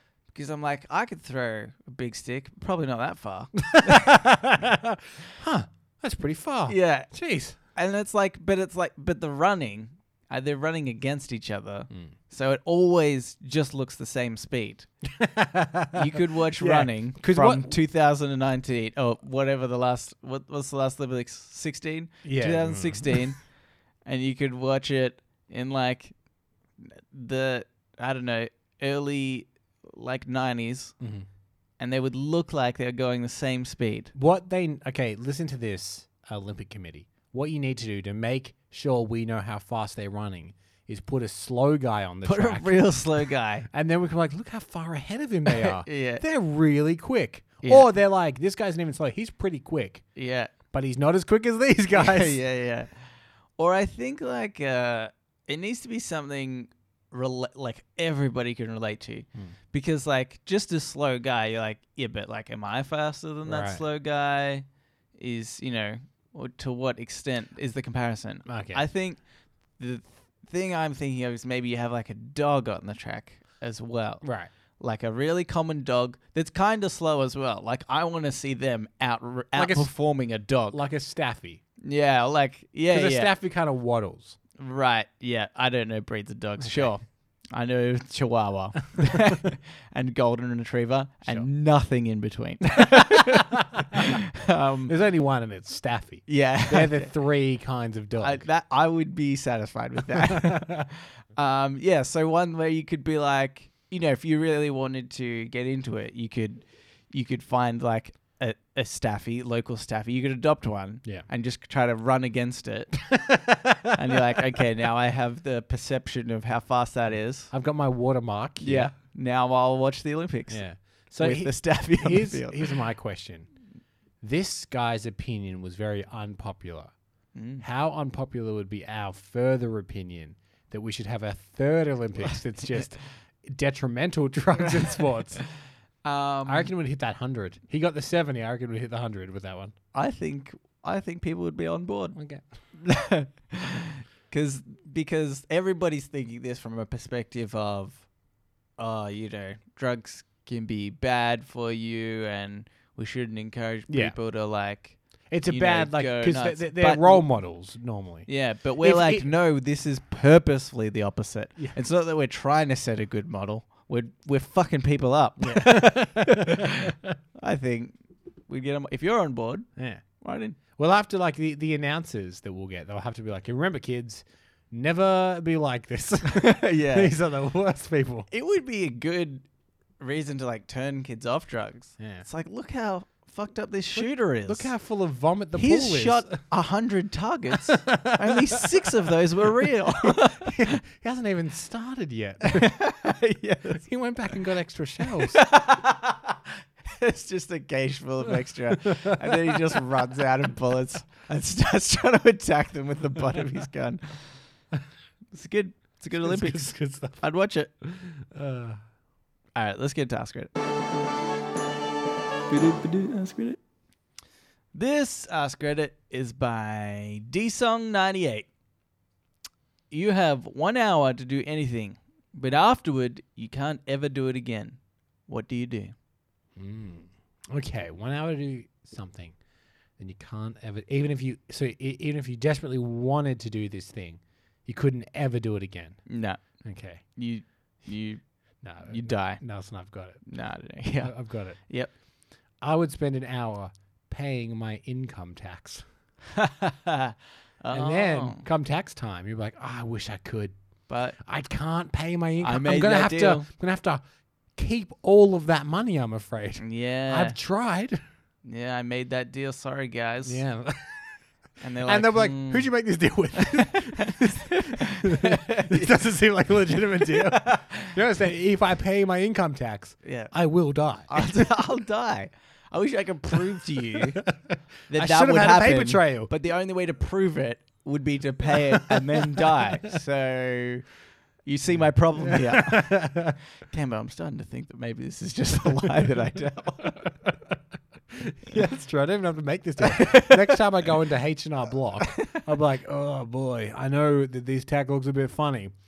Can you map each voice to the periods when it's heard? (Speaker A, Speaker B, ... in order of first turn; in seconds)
Speaker A: 0.3-4.1, 6.7-7.1, 7.7-14.9, 15.9-23.4, 24.0-26.1, 26.8-30.9, 31.8-34.1, 42.2-43.7, 45.5-46.2, 50.1-50.5, 51.9-53.0, 53.6-69.2, 69.8-74.2, 74.8-80.8, 81.8-83.3, 84.6-94.9, 96.3-97.1, 98.2-113.0, 113.9-117.5, 118.6-120.6, 121.2-122.8, 127.3-127.6, 136.0-136.7, 139.9-142.2, 142.7-148.1, 148.8-157.3, 158.3-169.7, 170.2-170.6, 176.2-177.1, 178.3-179.4, 180.0-184.7, 185.5-190.7, 192.4-193.8, 195.1-204.3, 205.3-207.7, 209.6-210.5, 212.5-213.6, 214.7-218.5, 219.9-225.9, 236.1-236.4, 237.2-238.2, 238.8-239.4, 240.2-241.9, 246.3-248.4, 250.9-251.2, 252.4-253.5, 256.6-257.4, 258.4-260.4, 261.6-262.7, 263.4-265.9, 267.0-267.9, 270.0-270.3, 271.1-274.2, 274.9-280.9, 281.4-283.1, 283.6-287.0, 289.8-290.6, 292.1-292.4
Speaker B: 3.6-7.5, 15.1-17.8, 22.2-23.2, 31.0-31.2, 34.1-43.0, 43.7-50.0, 50.7-52.4, 63.4-63.8, 68.5-68.8, 74.2-74.5, 79.5-79.9, 80.7-81.6, 82.9-84.4, 86.6-86.9, 92.8-94.2, 94.9-98.4, 100.1-100.9, 113.1-114.0, 117.5-118.9, 120.5-123.5, 124.2-126.9, 127.6-135.4, 136.4-139.7, 142.2-142.4, 153.9-154.2, 155.3-159.3, 165.4-167.1, 169.8-170.0, 170.8-178.3, 182.0-182.2, 183.9-186.4, 187.7-192.8, 193.7-195.4, 198.8-199.8, 206.1-207.2, 207.8-208.8, 226.6-229.3, 230.0-236.0, 236.6-237.0, 238.6-240.2, 241.0-241.6, 242.6-245.8, 247.7-250.5, 251.2-254.0, 254.5-258.0, 260.2-261.1, 261.8-271.1, 274.0-276.3, 278.8-279.4, 281.7-283.4, 287.0-287.5, 288.1-295.7